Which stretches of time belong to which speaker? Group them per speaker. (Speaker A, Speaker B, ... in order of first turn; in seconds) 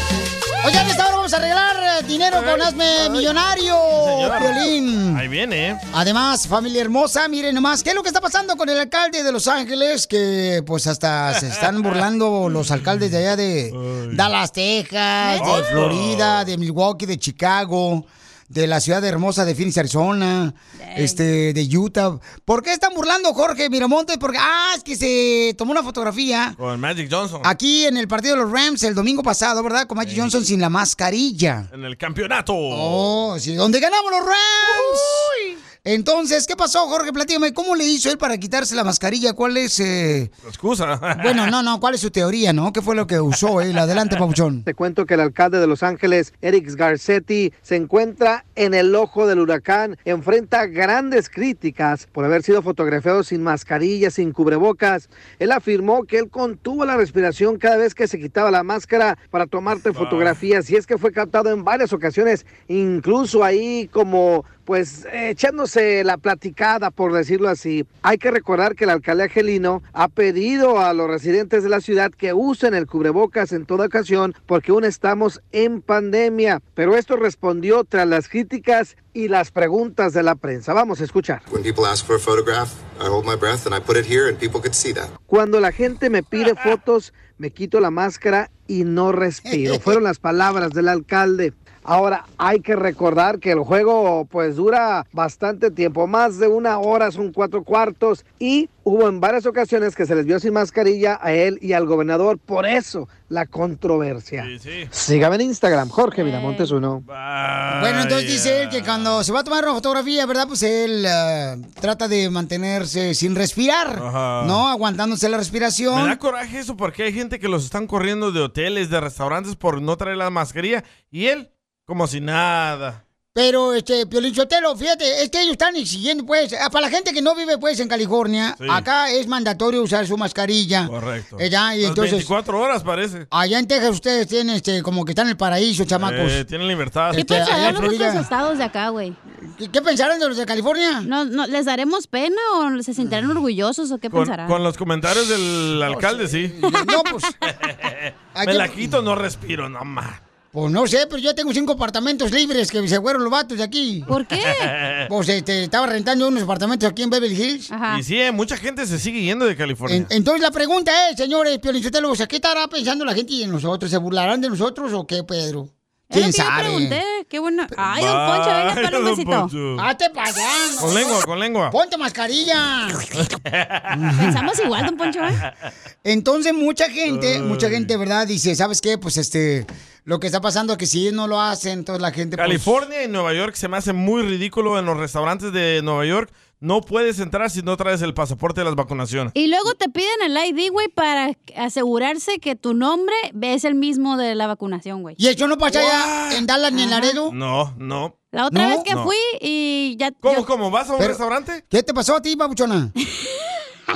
Speaker A: 0.6-5.2, 5.9-26.6, 27.4-31.7, 32.7-35.3, 35.9-40.3, 41.2-44.7, 89.5-89.9, 107.7-116.2, 123.3-132.3, 133.3-136.4, 137.1-138.3, 139.4-141.1, 143.0-143.4, 145.9-147.3, 148.3-149.0, 150.5-154.1, 155.1-157.7, 159.9-167.0, 169.8-171.2, 171.7-173.1, 173.9-174.4, 176.0-182.8, 195.2-197.4, 198.5-198.9, 201.0-202.9
Speaker B: 2.3-3.3, 4.0-5.8, 11.3-12.0, 13.7-14.2, 15.4-16.5, 26.6-27.5, 30.0-30.4, 31.7-33.1, 40.5-41.5, 59.9-60.4, 104.4-104.9, 107.1-109.2, 114.0-114.6, 115.9-123.0, 128.6-128.9, 130.9-133.3, 136.0-137.8, 144.1-146.6, 147.6-150.2, 154.4-155.1, 157.9-160.1, 167.8-169.9, 170.8-171.7, 173.2-173.8, 177.1-177.9, 182.4-189.3, 195.7-196.4, 197.3-198.2, 200.2-201.6
Speaker C: 15.2-15.7, 20.8-21.2, 106.2-106.7, 137.2-139.2, 141.1-144.6, 154.1-154.7, 157.7-158.0, 166.1-169.5, 174.2-175.4, 189.3-195.2, 196.7-197.1, 198.3-200.4, 203.2-203.5
Speaker D: 44.7-81.4, 85.3-107.0
Speaker E: 81.5-85.2